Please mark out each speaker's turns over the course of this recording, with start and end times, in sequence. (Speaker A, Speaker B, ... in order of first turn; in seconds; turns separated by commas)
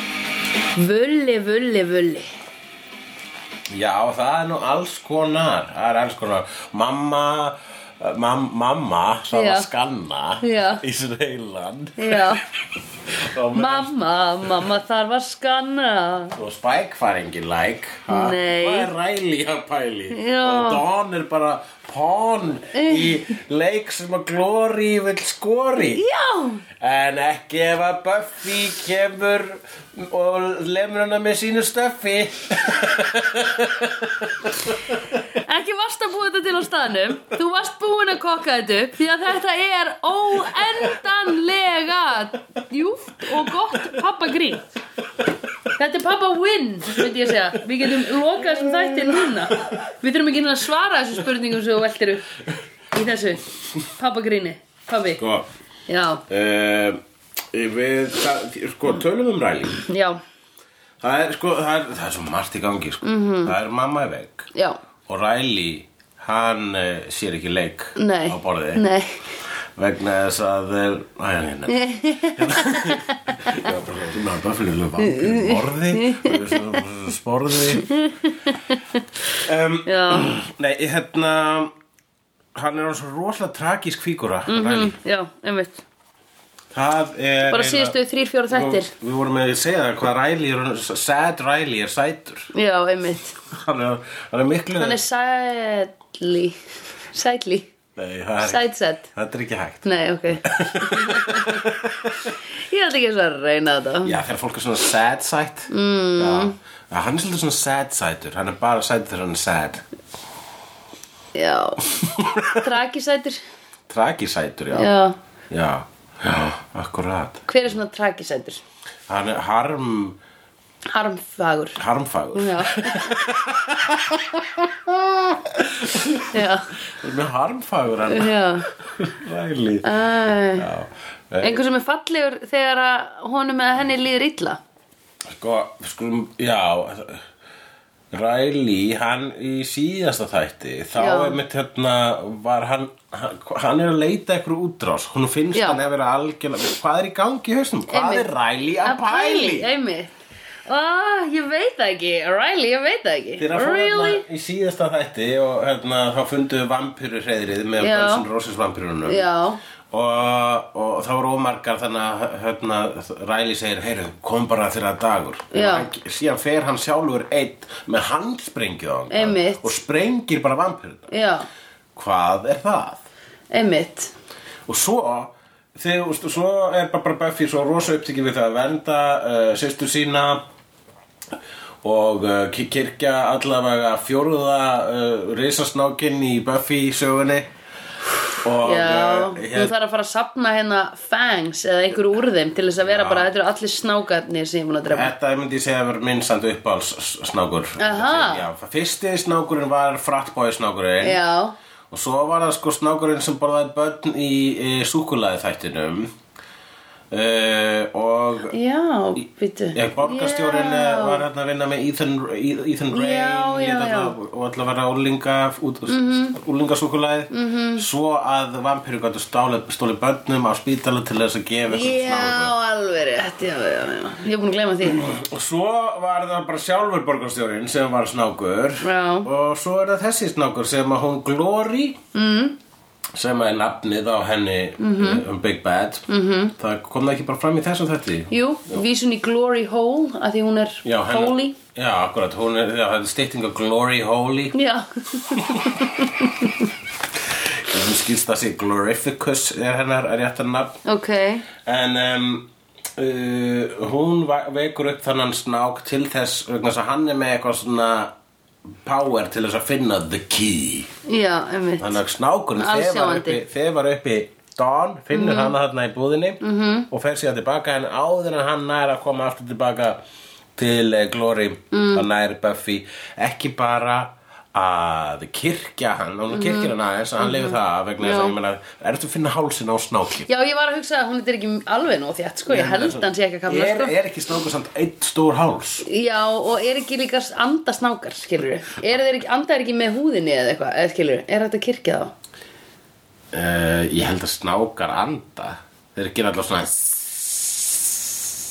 Speaker A: 0.8-2.3, Speaker B: 3.7-12.5, Speaker A: 9.3-9.7, Speaker A: 10.4-10.8, Speaker A: 12.0-12.4, Speaker B: 13.1-13.9, Speaker A: 13.5-16.4, Speaker B: 16.4-26.0, Speaker A: 18.1-18.9, Speaker A: 20.1-20.8, Speaker A: 22.7-23.3, Speaker A: 25.9-26.6, Speaker B: 26.8-35.0, Speaker A: 35.3-44.6, Speaker B: 43.3-44.0, Speaker A: 45.8-52.3, Speaker B: 47.0-48.0, Speaker B: 48.6-49.8, Speaker A: 52.9-55.2, Speaker B: 55.2-55.5, Speaker A: 55.9-56.2, Speaker B: 56.3-57.0, Speaker B: 57.5-59.8, Speaker A: 59.9-60.2, Speaker B: 61.0-64.5, Speaker A: 63.0-63.5, Speaker B: 65.1-68.9, Speaker A: 68.0-69.2, Speaker B: 69.8-77.9, Speaker A: 71.7-73.7, Speaker A: 75.0-76.8, Speaker A: 77.8-79.0, Speaker B: 79.4-81.7, Speaker A: 79.9-80.3, Speaker B: 82.5-85.0, Speaker A: 84.5-85.8, Speaker B: 86.7-88.0, Speaker A: 87.5-88.9, Speaker B: 88.5-92.5, Speaker A: 92.5-93.4, Speaker B: 93.5-95.0, Speaker A: 94.8-96.6, Speaker A: 97.1-97.7, Speaker B: 98.0-102.3, Speaker A: 98.4-99.1, Speaker A: 99.8-101.7, Speaker A: 102.5-104.2, Speaker B: 104.0-109.8, Speaker A: 105.7-106.6, Speaker A: 111.3-111.9, Speaker B: 111.9-112.6, Speaker A: 112.5-113.4, Speaker B: 113.9-114.9, Speaker A: 114.7-115.2, Speaker B: 115.5-117.5, Speaker A: 117.5-118.6, Speaker B: 119.1-120.2, Speaker A: 120.9-121.8, Speaker B: 121.8-126.3, Speaker A: 122.3-123.1, Speaker A: 126.3-126.7, Speaker B: 126.9-129.9, Speaker A: 128.1-128.7, Speaker A: 129.8-130.7, Speaker B: 130.6-131.6, Speaker A: 131.4-134.6, Speaker B: 135.3-137.3, Speaker B: 138.1-149.7, Speaker A: 140.9-141.4, Speaker A: 145.6-145.8, Speaker A: 147.9-148.3, Speaker A: 148.8-150.1, Speaker A: 150.7-154.2, Speaker B: 153.4-159.3, Speaker A: 157.8-158.2, Speaker A: 159.1-159.6, Speaker B: 159.9-171.1, Speaker A: 165.5-165.9, Speaker A: 169.1-169.7, Speaker A: 171.1-171.5, Speaker B: 171.9-173.0, Speaker A: 173.5-174.2, Speaker B: 174.7-180.4, Speaker B: 181.8-187.5, Speaker B: 188.3-189.7, Speaker A: 188.6-195.1, Speaker B: 192.8-193.3, Speaker B: 194.9-201.2, Speaker A: 197.8-198.4, Speaker A: 201.0-201.6, Speaker B: 201.9-206.1, Speaker B: 207.1-208.5, Speaker A: 208.5-211.2, Speaker B: 209.7-222.5, Speaker A: 212.9-214.2, Speaker A: 215.9-216.4, Speaker A: 217.3-217.9, Speaker A: 221.7-225.0, Speaker B: 224.8-232.0, Speaker A: 228.8-229.3, Speaker A: 232.1-232.6, Speaker B: 233.2-236.1, Speaker A: 234.8-235.2, Speaker A: 236.1-236.6, Speaker B: 236.6-238.8, Speaker A: 238.3-241.6, Speaker B: 240.8-244.6, Speaker A: 244.5-246.7, Speaker B: 245.3-245.7, Speaker B: 247.2-250.8, Speaker A: 250.8-251.5, Speaker B: 251.6-258.1, Speaker B: 258.9-260.9, Speaker A: 261.1-262.0, Speaker B: 261.8-270.0, Speaker A: 262.6-263.4, Speaker A: 265.1-265.5, Speaker A: 266.4-266.9, Speaker B: 270.6-280.3, Speaker A: 271.7-272.1, Speaker A: 276.3-278.4, Speaker A: 280.3-283.9, Speaker B: 282.5-285.9, Speaker A: 285.9-292.1, Speaker B: 293.3-297.6